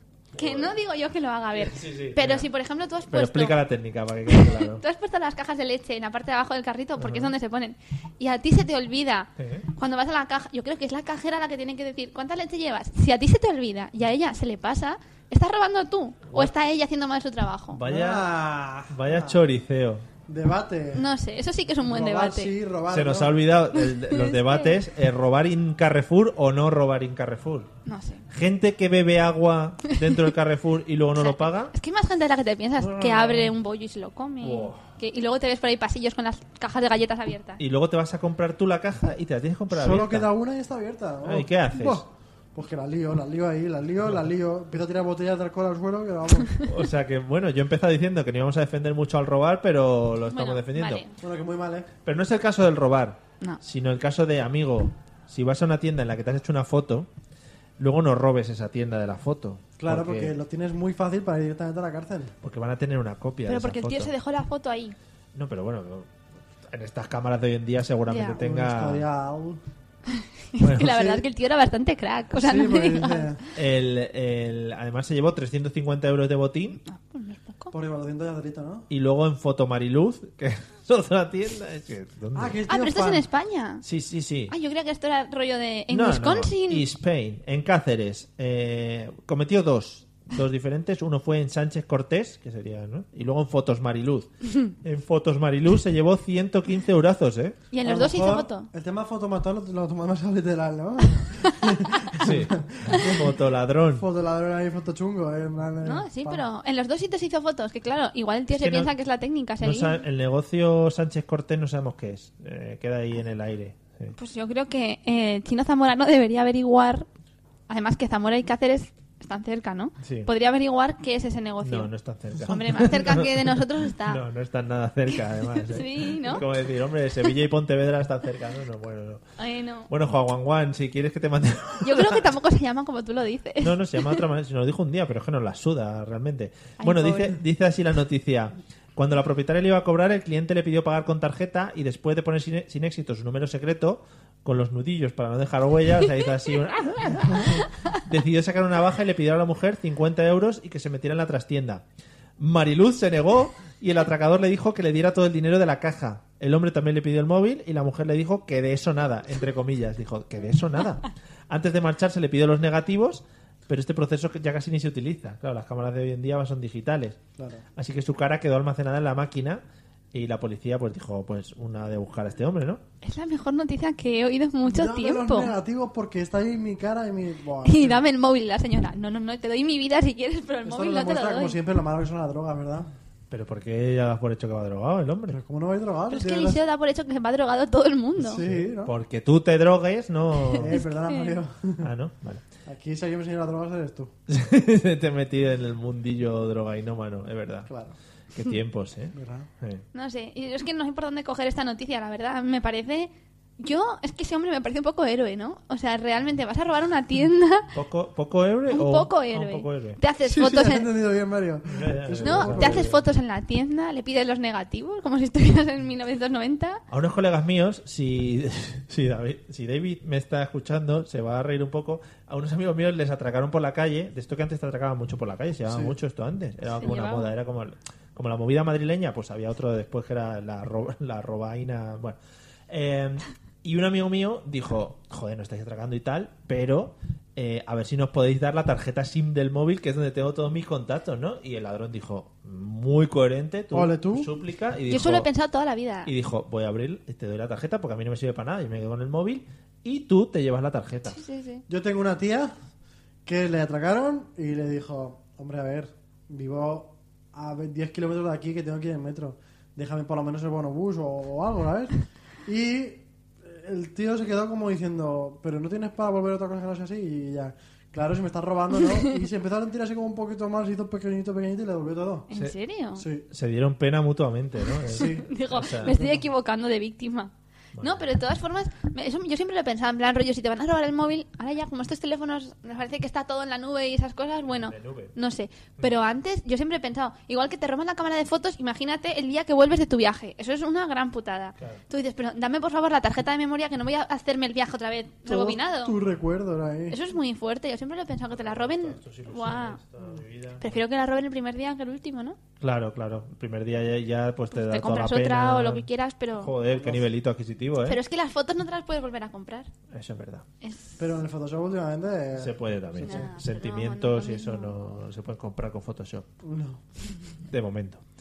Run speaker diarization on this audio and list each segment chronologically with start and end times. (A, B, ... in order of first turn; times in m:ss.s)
0:00.3-0:00.8 A
0:00.4-0:03.6 B
0:01.5-0:02.5 A
0:03.1-0:04.8 A
0:04.3-0:17.8 B
0:07.0-0:07.3 A
0:09.4-0:09.6 A
0:17.7-0:18.3 A
0:17.8-0:19.4 C
0:18.9-0:20.1 A
0:20.3-0:21.0 C
0:20.9-0:22.5 B
0:21.8-0:23.5 C
0:22.9-0:27.7 A
0:23.7-0:24.8 B
0:27.8-0:28.2 B
0:28.3-0:31.7 A
0:29.9-0:30.2 B
0:31.2-0:37.6 B
0:32.8-0:33.5 C
0:34.4-0:34.8 A
0:37.6-0:40.3 A
0:39.7-0:46.5 C
0:41.2-0:42.0 A
0:46.6-0:51.0 A
0:50.3-0:51.1 B
0:51.2-0:51.9 C
0:52.0-0:57.1 A
0:57.8-1:00.3 A
0:59.8-1:02.3 C
1:02.4-1:04.1 A
1:03.5-1:04.9 B
1:05.3-1:06.1 A
1:06.7-1:09.0 A
1:08.1-1:08.4 B
1:08.4-1:09.6 C
1:10.1-1:13.4 B
1:10.6-1:11.2 A
1:12.3-1:13.4 C
1:13.5-1:16.8 A
1:16.8-1:17.7 B
1:17.7-1:18.9 C
1:18.9-1:22.6 A
1:22.3-1:23.2 C
1:22.7-1:23.8 B
1:23.8-1:24.5 A
1:24.5-1:26.9 B
1:25.9-1:37.6 A
1:37.7-1:38.7 B
1:37.8-1:43.3 C
1:42.2-1:44.0 A
1:43.9-1:46.4 C
1:45.8-1:50.0 B
1:48.5-1:48.9 A
1:49.6-1:54.1 A
1:54.1-1:57.1 B
1:57.7-2:01.9 B
2:00.0-2:00.3 A
2:01.6-2:09.2 A
2:02.4-2:04.2 B
2:05.1-2:06.4 B
2:09.4-2:09.9 B
2:09.9-2:12.2 A
2:11.8-2:14.2 B
2:13.6-2:31.8 A
2:16.8-2:17.4 B
2:32.4-2:47.2 A
2:47.4-2:47.6 C
2:47.8-2:49.6 A
2:50.1-2:52.8 A
2:53.0-2:55.5 B
2:54.7-2:58.0 C
2:57.6-3:01.6 B
3:00.6-3:02.9 C
3:03.3-3:05.4 A
3:05.3-3:06.6 C
3:06.1-3:08.4 B
3:08.2-3:08.9 C
3:08.3-3:10.8 A
3:10.5-3:11.4 B
3:10.6-3:11.9 C
3:11.8-3:12.4 A
3:12.6-3:14.1 C
3:14.3-3:17.7 A
3:17.7-3:17.9 C
3:18.3-3:19.8 A
3:19.1-3:19.5 C
3:19.9-3:27.7 B
3:27.7-3:30.0 A
3:28.7-3:30.9 B
3:30.2-3:32.9 C
3:31.7-3:33.0 A
3:32.2-3:36.8 B
3:36.9-3:52.2 A
3:45.7-3:45.9 C
3:46.8-3:47.3 B
3:52.7-4:05.3 A
4:03.7-4:04.3 C
4:04.9-4:06.1 B
4:06.0-4:11.2 A
4:11.1-4:11.6 B
4:11.7-4:12.5 C
4:13.2-4:32.3 C
4:32.3-4:33.1 B
4:33.0-4:33.2 C
4:33.3-4:36.0 A
4:34.9-4:35.3 C
4:35.0-4:56.0 B
4:35.9-4:36.2 C
4:37.7-4:38.1 A
4:44.5-4:45.1 A
4:55.2-4:57.0 C
4:56.9-4:59.8 B
4:58.3-5:00.7 A
5:00.6-5:02.4 B
5:02.6-5:08.0 A
5:04.5-5:06.5 B
5:06.7-5:07.0 C
5:07.9-5:09.7 B
5:09.9-5:10.4 A
5:10.6-5:11.0 B
5:11.0-5:13.3 C
5:12.4-5:16.3 A
5:13.0-5:14.7 B
5:16.4-5:16.8 C
5:17.5-5:18.0 A